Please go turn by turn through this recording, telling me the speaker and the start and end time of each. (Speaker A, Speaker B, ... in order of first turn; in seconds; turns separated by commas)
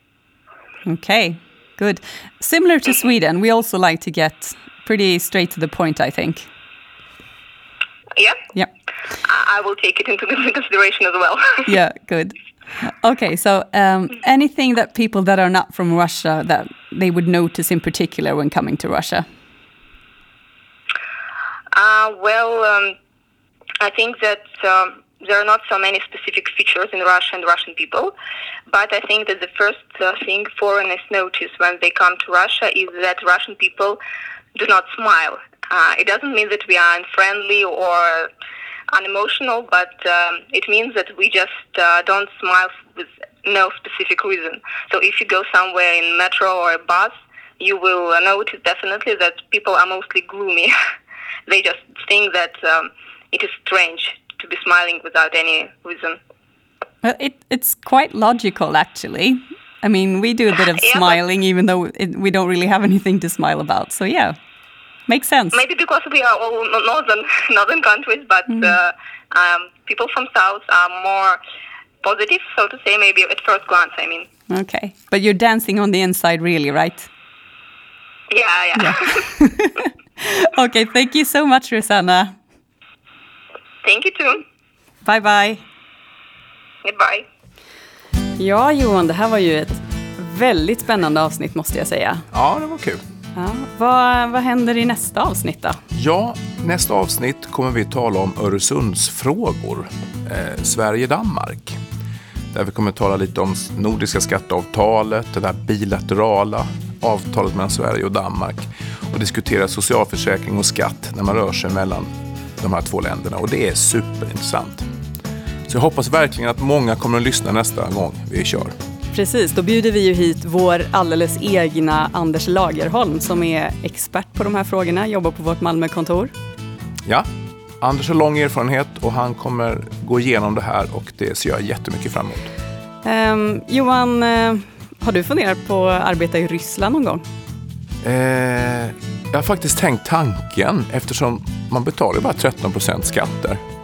Speaker A: 0.8-6.5, Speaker B: 8.1-8.4, Speaker B: 9.2-11.7, Speaker A: 11.7-19.2, Speaker B: 21.7-22.9, Speaker B: 23.8-28.1, Speaker B: 28.7-34.0, Speaker B: 34.5-38.3, Speaker B: 38.9-50.7, Speaker B: 51.5-56.2, Speaker A: 57.0-64.3, Speaker B: 60.8-61.2, Speaker A: 65.1-65.6, Speaker B: 65.5-71.4, Speaker B: 72.0-74.3, Speaker A: 74.5-77.1, Speaker B: 78.3-79.2, Speaker A: 78.8-82.3, Speaker B: 83.8-84.4, Speaker A: 85.0-85.6, Speaker B: 86.8-87.2, Speaker A: 88.4-92.2, Speaker C: 92.3-93.0, Speaker A: 93.3-95.8, Speaker C: 95.9-101.8, Speaker C: 102.5-114.9, Speaker C: 115.7-118.7, Speaker A: 119.1-126.3, Speaker C: 127.8-132.5, Speaker A: 133.0-137.2, Speaker C: 138.0-143.6